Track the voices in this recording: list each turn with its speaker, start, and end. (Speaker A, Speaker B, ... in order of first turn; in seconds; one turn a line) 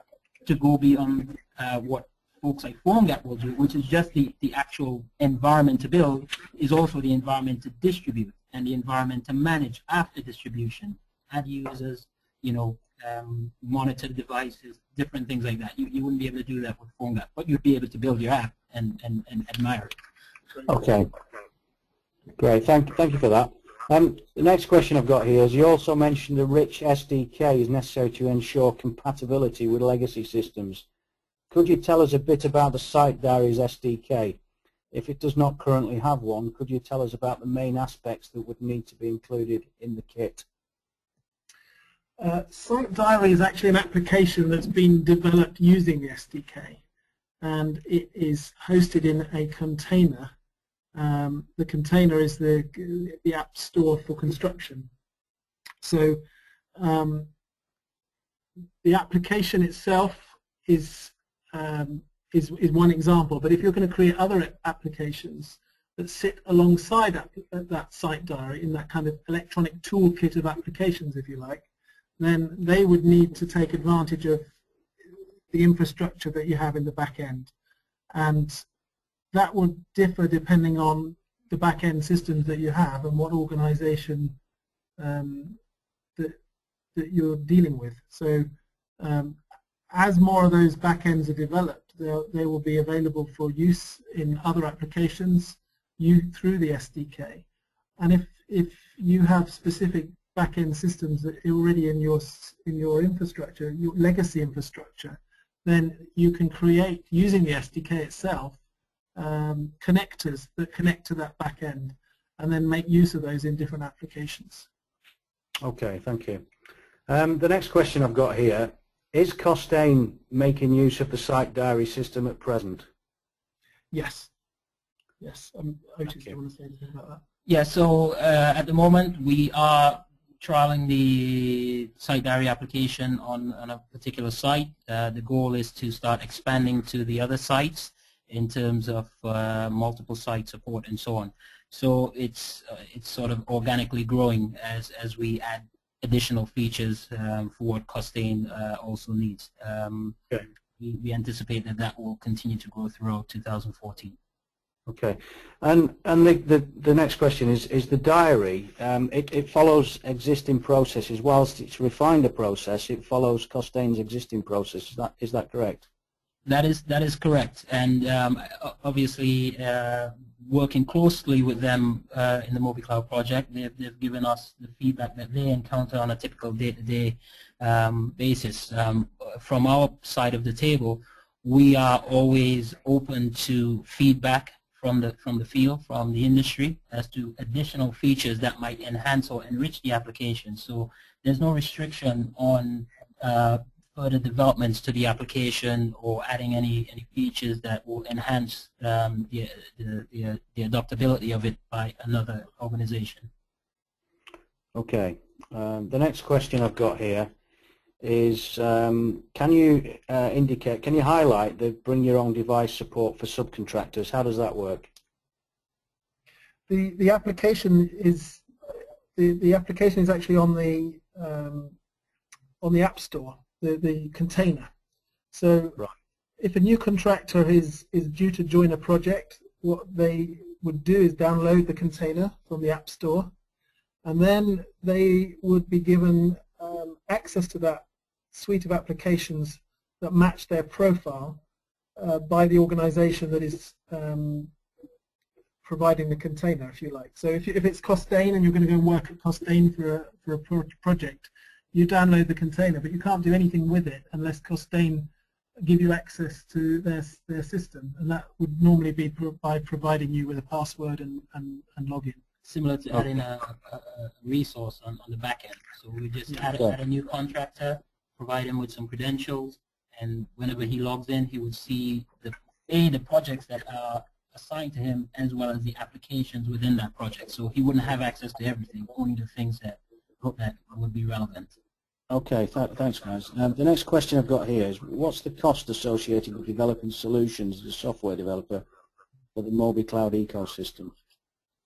Speaker A: 0.4-19.9
Speaker B: 20.7-21.1
Speaker B: 22.4-30.8
Speaker B: 31.5-34.4
Speaker B: 34.9-40.5
Speaker C: 42.2-46.8
Speaker C: 47.4-50.3
Speaker C: 50.9-54.9
Speaker C: 55.8-56.2
Speaker C: 56.8-57.3
Speaker C: 58.8-71.7
Speaker C: 72.2-74.5
Speaker C: 75.5-77.5
Speaker C: 78.1-78.6
Speaker C: 79.3-84.4
Speaker C: 85.0-85.6
Speaker C: 86.9-97.4
Speaker C: 98.0-108.6
Speaker C: 109.2-114.7
Speaker B: 115.6-116.4
Speaker B: 117.1-122.9
Speaker C: 123.9-124.3
Speaker C: 125.2-127.2
Speaker A: 127.5-150.2
Speaker A: 150.8-154.2
Speaker B: 154.9-165.9
Speaker A: 166.4-203.3
Speaker B: 204.7-207.3
Speaker B: 208.0-214.9
Speaker C: 216.7-218.4
Speaker C: 219.1-221.8
Speaker C: 222.6-224.7
Speaker C: 225.3-225.8
Speaker C: 226.4-233.3
Speaker C: 234.0-241.4
Speaker C: 241.9-244.5
Speaker C: 245.6-262.2
Speaker A: 262.4-279.8
Speaker A: 280.3-281.5
Speaker B: 282.1-288.6
Speaker B: 289.3-290.9